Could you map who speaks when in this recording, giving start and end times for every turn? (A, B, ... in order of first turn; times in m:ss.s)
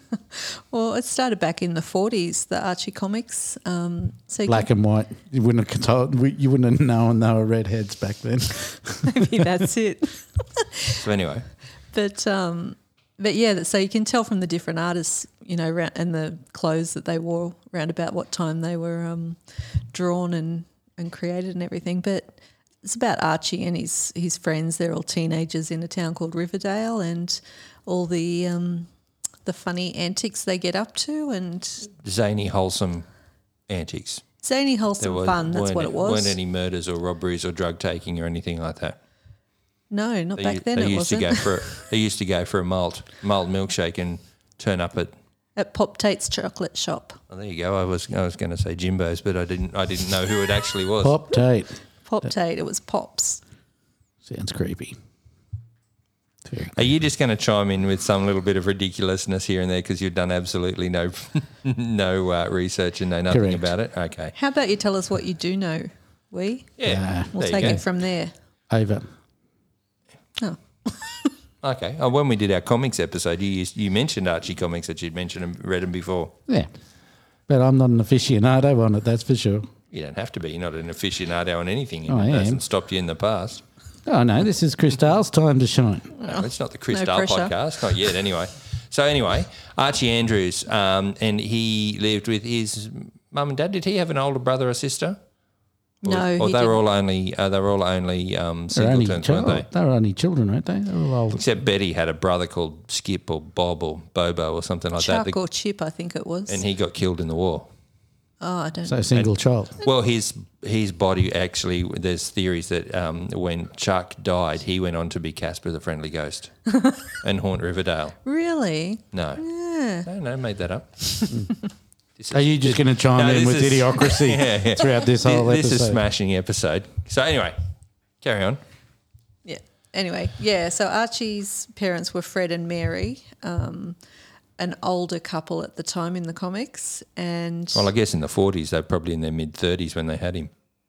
0:00.2-0:04.7 A
0:04.5-0:09.5 B
0:09.0-0:11.0 A
0:10.9-0:11.5 C
0:11.9-0:28.9 A
0:29.4-0:31.9 A
0:32.0-0:33.1 C
0:33.7-0:34.2 C
0:34.4-0:36.4 A
0:35.0-0:39.0 C
0:39.9-0:41.8 A
0:40.4-0:45.1 C
0:45.6-0:47.2 A
0:47.3-0:51.2 C
0:51.0-0:51.8 B
0:52.1-0:53.4 A
0:54.2-0:55.0 B
0:56.4-0:56.8 B
0:56.7-1:04.3 C
1:03.3-1:03.7 B
1:04.4-1:06.7 A
1:06.8-1:07.8 C
1:06.8-1:07.8 B
1:07.3-1:08.3 A
1:08.7-1:09.1 B
1:10.4-1:11.3 A
1:11.6-1:16.4 C
1:17.5-1:19.7 B
1:19.9-1:23.6 C
1:22.1-1:22.6 B
1:24.1-1:26.1 B
1:26.2-1:27.5 A
1:26.3-1:35.2 C
1:36.0-1:39.7 C
1:36.0-1:36.8 A
1:38.7-1:41.4 B
1:41.3-1:45.3 C
1:45.0-1:46.6 A
1:46.5-1:47.7 C
1:48.4-1:49.1 A
1:48.9-1:49.8 B
1:49.1-1:58.2 C
1:56.7-1:57.1 A
1:58.2-2:00.1 A
1:59.1-1:59.4 C
2:00.0-2:01.0 C
2:02.2-2:07.6 C
2:02.3-2:06.0 B
2:08.2-2:08.6 C
2:09.4-2:14.0 A
2:14.6-2:17.9 A
2:17.7-2:20.5 C